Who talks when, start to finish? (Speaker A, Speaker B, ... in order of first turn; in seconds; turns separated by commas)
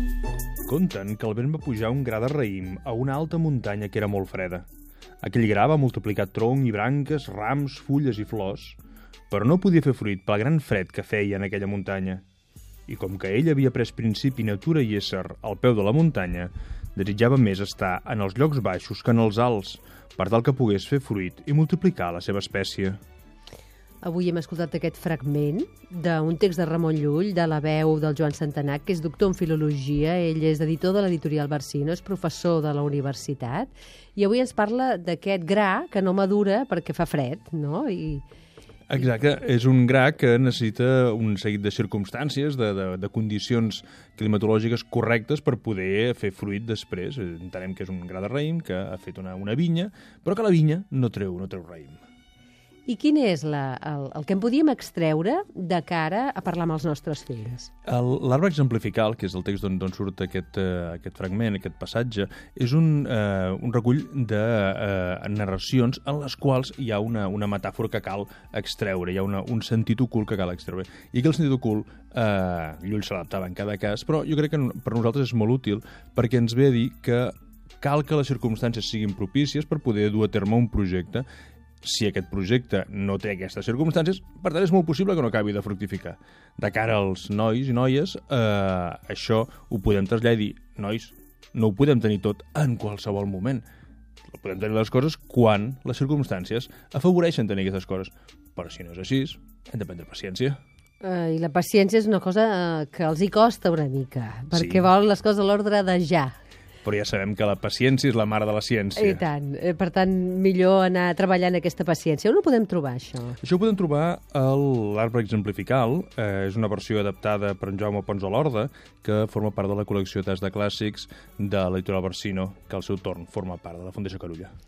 Speaker A: 0.7-4.6, Speaker A: 5.2-8.8, Speaker A: 9.3-12.2, Speaker A: 12.9-23.0, Speaker B: 24.0-38.2, Speaker A: 38.9-52.0, Speaker B: 52.9-57.7, Speaker A: 57.9-81.2, Speaker A: 81.8-93.6, Speaker A: 94.3-100.6, Speaker B: 101.0-106.3, Speaker A: 104.5-104.9, Speaker A: 106.8-109.2, Speaker B: 109.0-113.4, Speaker A: 113.4-124.5